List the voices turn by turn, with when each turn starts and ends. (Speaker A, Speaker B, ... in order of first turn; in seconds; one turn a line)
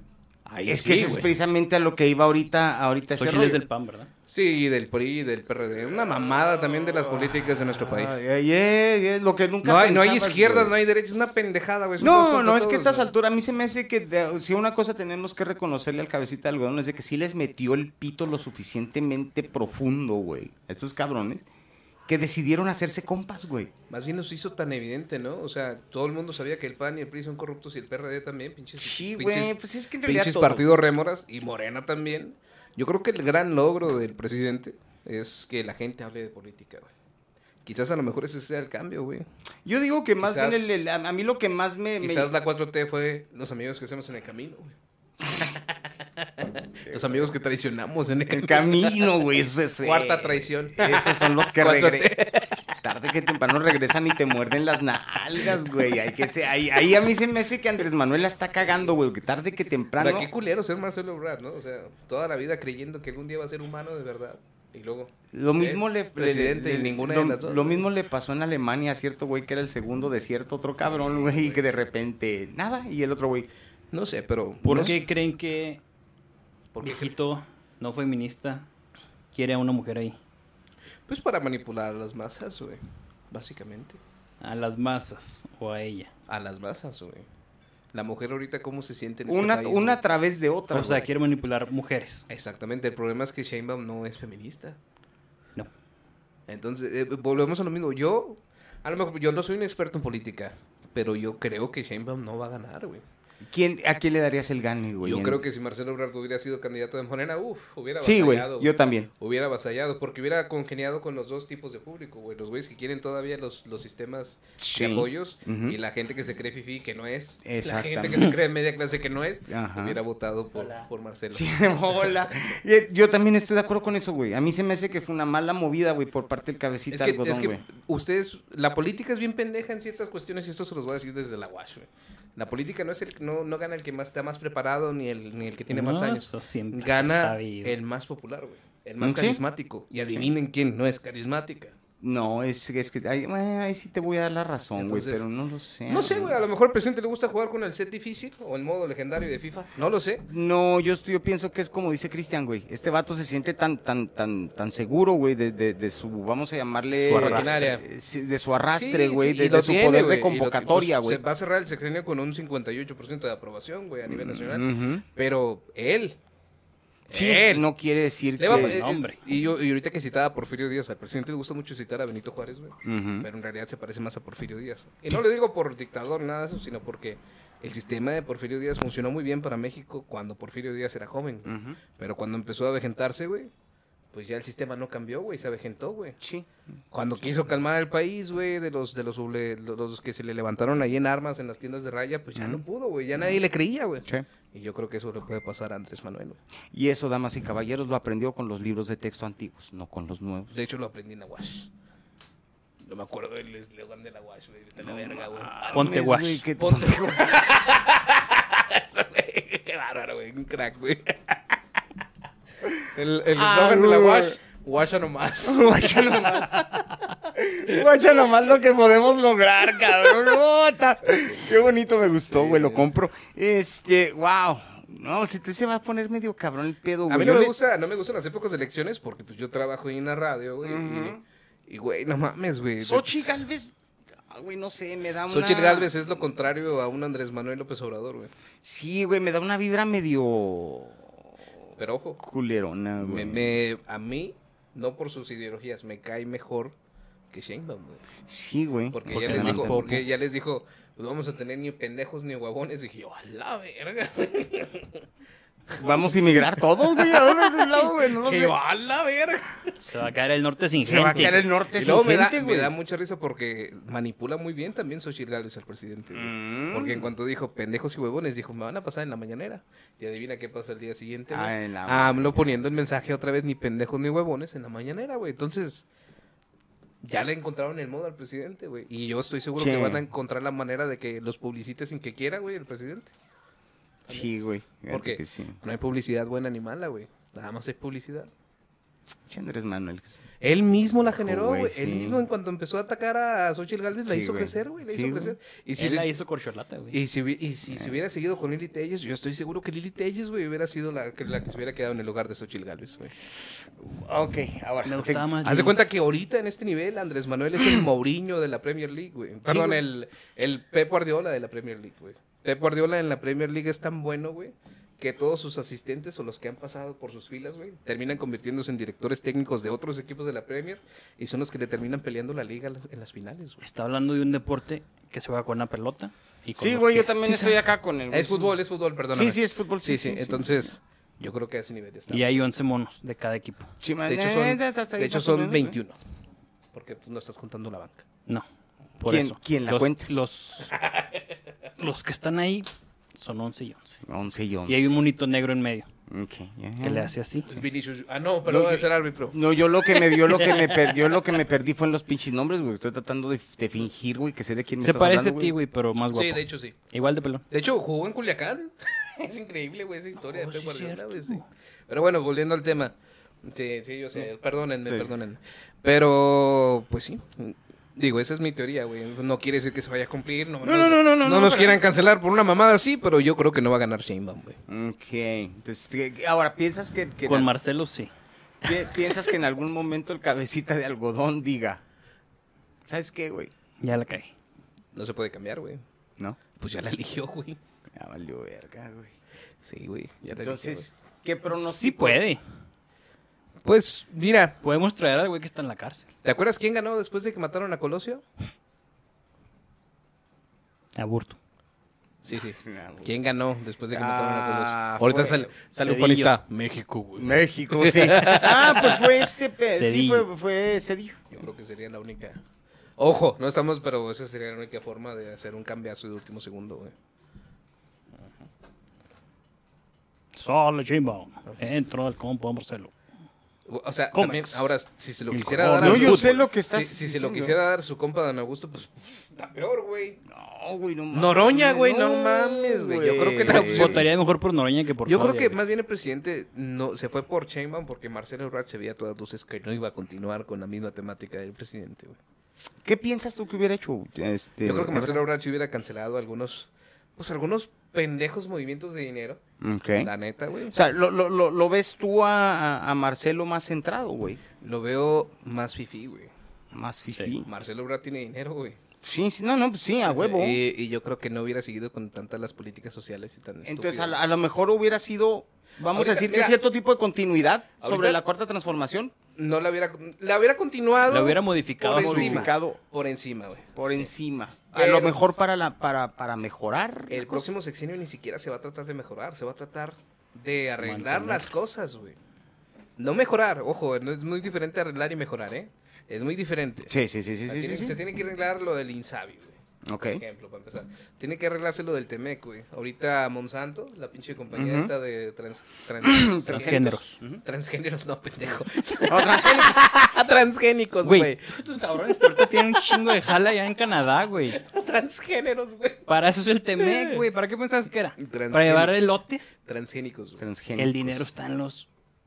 Speaker A: 0.5-1.3
Speaker B: 0.7-3.6
Speaker C: 3.1-4.1
Speaker A: 4.3-8.2
Speaker B: 6.9-10.7
Speaker A: 9.6-13.1
Speaker B: 12.0-21.4
Speaker B: 22.1-23.7
Speaker A: 23.9-29.5
Speaker B: 28.8-30.8
Speaker A: 30.0-36.9
Speaker A: 37.6-39.2
Speaker B: 39.6-42.3
Speaker A: 40.2-40.9
Speaker A: 42.0-44.8
Speaker A: 45.4-49.1
Speaker B: 46.9-47.3
Speaker B: 48.3-52.2
Speaker A: 49.8-52.8
Speaker B: 52.8-60.3
Speaker A: 60.0-67.9
Speaker B: 65.3-73.5
Speaker A: 70.8-71.8
Speaker A: 73.9-75.0
Speaker C: 74.6-75.8
Speaker A: 76.7-77.1
Speaker C: 76.8-78.7
Speaker C: 79.3-80.2
Speaker A: 81.1-84.0
Speaker C: 84.4-86.1
Speaker A: 86.3-87.2
Speaker A: 87.9-90.0
Speaker B: 89.3-91.1
Speaker C: 90.7-92.2
Speaker A: 92.3-94.8
Speaker A: 96.5-103.0
Speaker B: 103.4-105.4
Speaker A: 105.0-122.4
Speaker B: 108.0-109.1
Speaker B: 114.6-115.8
Speaker B: 117.4-118.4
Speaker B: 119.5-120.0
Speaker C: 120.5-120.9
Speaker B: 121.3-127.6
Speaker A: 126.9-141.7
Speaker C: 135.7-137.8
Speaker B: 139.0-139.4
Speaker B: 142.0-146.4
Speaker A: 144.8-145.3
Speaker A: 145.9-150.2
Speaker B: 150.2-161.2
Speaker C: 157.0-157.6
Speaker A: 157.0-157.8
Speaker A: 158.7-166.2
Speaker B: 164.1-165.0
Speaker B: 167.1-168.8
Speaker A: 167.1-167.6
Speaker A: 168.4-183.5
Speaker C: 168.4-169.2
Speaker B: 172.8-173.3
Speaker B: 181.4-181.8
Speaker A: 184.1-186.2
Speaker B: 186.2-186.5
Speaker A: 186.9-196.4
Speaker B: 192.4-192.6
Speaker B: 196.7-200.5
Speaker A: 200.5-201.7
Speaker A: 202.8-206.0
Speaker B: 204.8-207.5
Speaker C: 205.7-206.4
Speaker A: 206.6-211.4
Speaker A: 212.8-216.7
Speaker B: 213.3-214.4
Speaker B: 215.4-227.5
Speaker A: 222.3-222.9
Speaker A: 227.1-233.4
Speaker B: 230.6-231.2
Speaker B: 232.8-233.8
Speaker B: 234.3-236.1
Speaker A: 235.3-238.3
Speaker B: 238.6-241.2
Speaker A: 241.8-242.2
Speaker B: 242.2-243.6
Speaker A: 243.0-246.8
Speaker A: 247.3-248.0
Speaker B: 248.3-250.0
Speaker A: 248.9-255.0
Speaker C: 249.1-250.0
Speaker B: 255.8-258.5
Speaker A: 255.8-259.9
Speaker C: 259.8-261.4
Speaker B: 260.8-262.7
Speaker A: 261.7-275.9
Speaker B: 266.1-267.1
Speaker B: 271.3-272.6
Speaker A: 277.0-283.1
Speaker B: 279.6-280.0
Speaker B: 284.1-285.6
Speaker A: 284.9-288.3
Speaker B: 289.3-290.2
Speaker A: 290.4-296.1
Speaker B: 291.1-292.2
Speaker B: 294.1-295.4
Speaker C: 295.8-297.0
Speaker A: 296.9-303.1
Speaker B: 303.8-305.2
Speaker C: 304.9-305.8
Speaker A: 305.4-323.6
Speaker B: 309.5-309.8
Speaker C: 323.6-327.5
Speaker B: 326.6-328.6
Speaker A: 328.1-332.4
Speaker B: 329.1-330.7
Speaker C: 332.1-333.7
Speaker B: 333.8-335.8
Speaker A: 334.1-336.0
Speaker A: 336.7-338.0
Speaker C: 339.0-340.8
Speaker B: 339.0-340.1
Speaker A: 340.7-341.4
Speaker C: 341.8-344.0
Speaker B: 344.0-344.9
Speaker C: 344.7-345.9
Speaker B: 346.1-347.1
Speaker C: 346.8-347.5
Speaker A: 347.4-350.7
Speaker B: 348.4-355.6
Speaker C: 354.8-357.4
Speaker A: 356.1-356.8
Speaker A: 357.5-374.6
Speaker C: 360.2-361.4
Speaker B: 370.6-371.8
Speaker B: 374.7-377.5
Speaker C: 377.2-378.1
Speaker B: 378.6-381.8
Speaker B: 382.9-383.5
Speaker C: 383.8-384.3
Speaker A: 384.9-385.8
Speaker A: 386.6-387.6
Speaker B: 387.9-389.1
Speaker A: 389.6-390.9
Speaker B: 390.4-392.2
Speaker C: 391.5-392.4
Speaker A: 393.6-394.6
Speaker C: 394.6-396.1
Speaker A: 396.2-398.2
Speaker C: 400.9-401.4
Speaker A: 402.2-409.1
Speaker B: 402.5-403.1
Speaker B: 403.9-405.5
Speaker C: 405.8-406.4
Speaker B: 407.2-411.2
Speaker C: 409.7-410.2
Speaker A: 411.3-412.4
Speaker A: 413.0-416.9
Speaker C: 420.4-422.9
Speaker A: 423.7-430.2
Speaker C: 424.1-424.7
Speaker C: 425.3-426.4
Speaker B: 425.8-427.6
Speaker B: 430.3-434.1
Speaker A: 431.1-434.1
Speaker C: 433.5-435.6
Speaker A: 435.1-442.2
Speaker B: 442.8-445.2
Speaker A: 444.6-449.4
Speaker B: 449.6-450.1
Speaker A: 450.0-450.8
Speaker B: 450.7-454.4
Speaker A: 454.6-456.3
Speaker B: 456.7-457.5
Speaker A: 457.4-458.8
Speaker B: 459.0-460.6
Speaker A: 460.0-464.1
Speaker B: 463.6-469.1
Speaker A: 465.9-466.6
Speaker A: 467.8-468.2
Speaker A: 469.4-474.1
Speaker C: 471.1-472.5
Speaker B: 471.9-472.8
Speaker B: 473.8-477.4
Speaker A: 474.7-475.2
Speaker A: 477.1-482.2
Speaker C: 480.8-481.5
Speaker A: 483.0-486.9
Speaker B: 486.9-488.0
Speaker A: 487.5-489.6
Speaker B: 489.9-490.2
Speaker A: 490.1-503.1
Speaker B: 494.5-494.9
Speaker B: 496.0-497.4
Speaker C: 496.5-497.2
Speaker B: 499.0-499.9
Speaker C: 501.0-504.6
Speaker A: 504.5-506.1
Speaker C: 506.1-509.5
Speaker A: 506.8-507.2
Speaker A: 508.2-509.0
Speaker A: 509.6-510.4
Speaker B: 510.4-511.3
Speaker C: 510.8-511.9